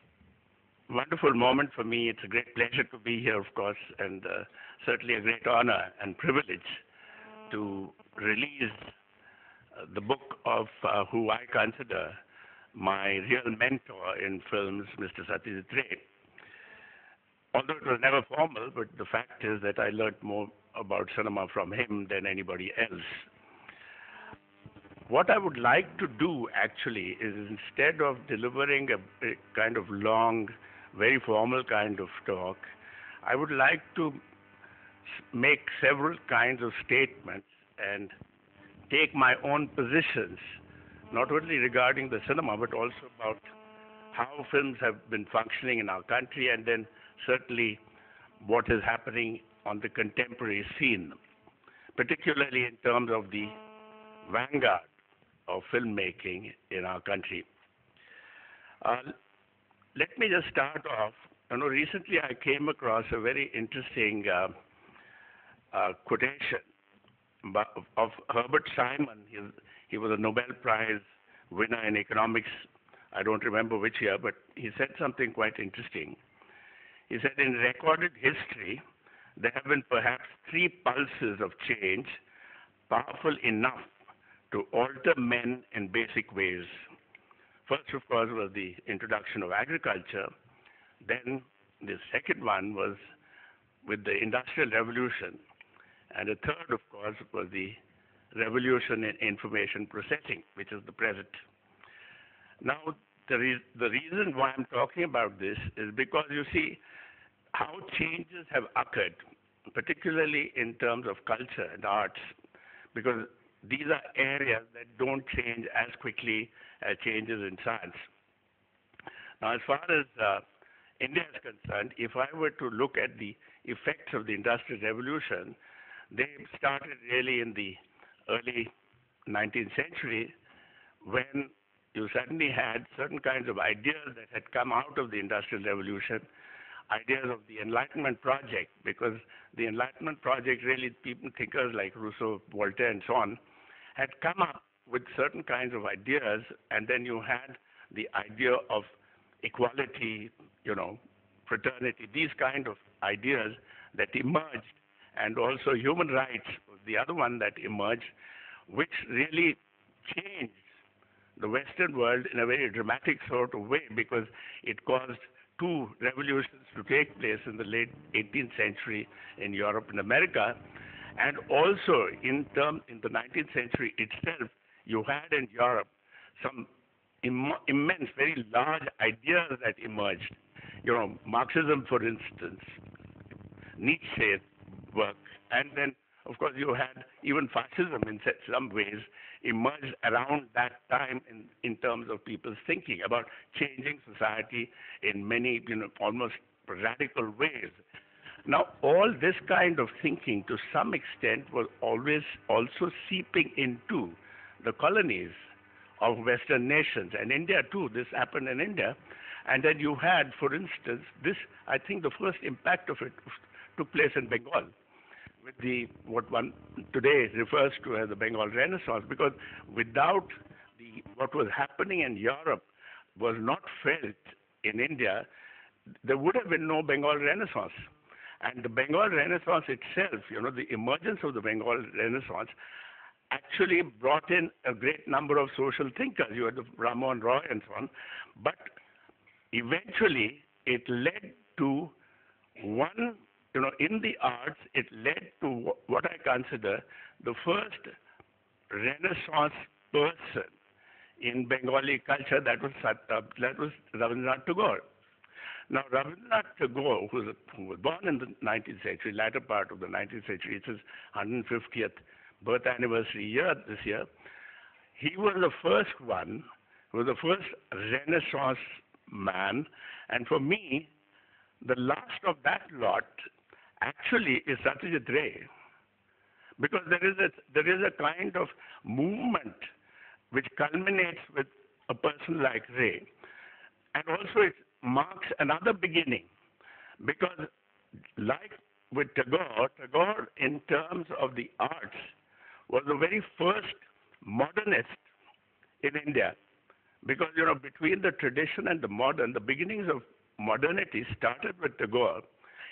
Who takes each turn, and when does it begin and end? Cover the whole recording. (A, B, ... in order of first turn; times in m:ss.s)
0:00.9-0:06.8 A
0:07.5-0:08.9 A
0:09.8-0:12.2 A
0:12.8-0:16.0 A
0:17.5-0:23.3 A
0:25.1-0:32.7 A
0:33.2-0:34.2 A
0:35.3-0:38.1 A
0:38.9-0:40.5 A
0:41.1-0:43.5 A
0:44.1-0:47.8 A
0:48.4-0:51.2 A
0:52.0-0:53.6 A
0:54.2-0:54.9 A
0:55.5-0:57.5 A
0:58.8-0:59.2 A
1:00.0-1:04.5 A
1:05.7-1:06.7 A
1:07.4-1:16.2 A
1:17.1-1:18.8 A
1:19.4-1:22.2 A
1:22.9-1:23.9 A
1:24.5-1:26.7 A
1:27.7-1:30.3 A
1:31.0-1:33.0 A
1:33.8-1:35.4 A
1:36.1-1:37.8 A
1:38.3-1:41.4 A
1:42.6-1:46.8 A
1:47.5-1:52.3 A
1:52.9-1:58.0 A
1:59.4-2:00.4 A
2:01.0-2:05.6 A
2:06.1-2:08.7 A
2:09.3-2:10.3 A
2:11.0-2:16.2 A
2:16.9-2:23.4 A
2:24.0-2:38.1 A
2:38.7-2:40.6 A
2:41.4-2:50.6 A
2:51.2-2:56.7 A
2:57.2-3:02.8 A
3:03.8-3:17.8 A
3:18.5-3:25.4 A
3:26.0-3:33.2 A
3:33.8-3:34.7 A
3:35.4-3:45.3 A
3:46.0-3:47.9 A
3:48.4-3:52.5 A
3:53.3-3:58.7 A
3:59.5-4:01.9 A
4:02.6-4:07.9 A
4:08.7-4:10.5 A
4:11.2-4:14.8 A
4:15.7-4:24.1 A
4:25.0-4:30.9 A
4:31.6-4:33.3 A
4:33.8-4:35.4 A
4:36.6-4:39.7 A
4:40.3-4:43.1 A
4:43.9-4:46.3 A
4:47.0-4:47.5 A
4:48.2-4:52.1 A
4:52.7-4:55.0 A
4:55.8-4:56.4 A
4:57.0-5:02.2 A